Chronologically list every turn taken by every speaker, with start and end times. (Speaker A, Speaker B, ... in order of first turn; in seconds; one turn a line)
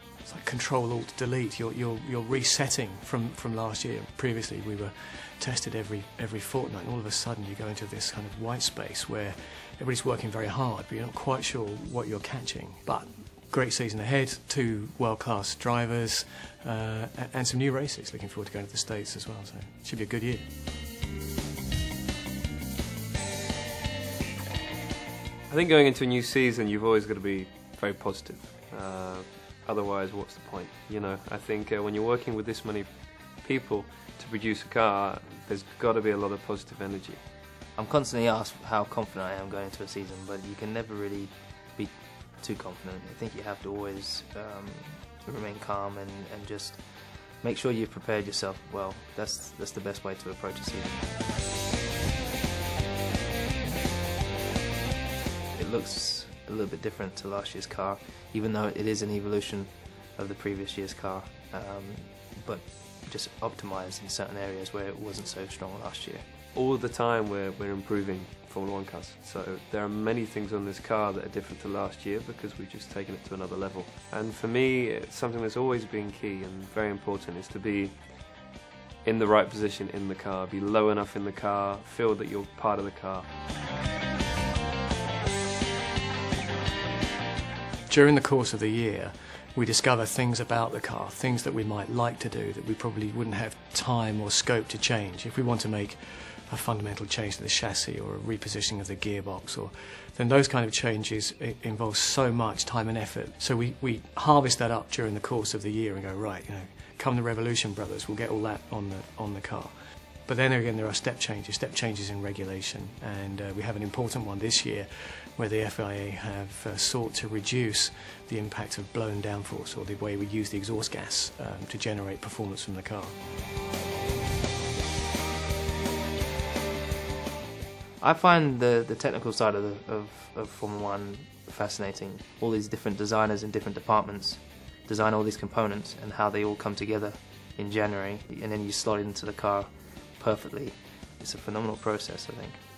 Speaker A: 0.2-20.4
Speaker B: 25.5-37.2
Speaker C: 37.8-51.0
Speaker C: 55.5-66.2
Speaker B: 66.5-78.2
Speaker B: 79.0-83.3
Speaker A: 87.9-109.7
Speaker A: 110.2-123.1
Speaker C: 128.0-142.6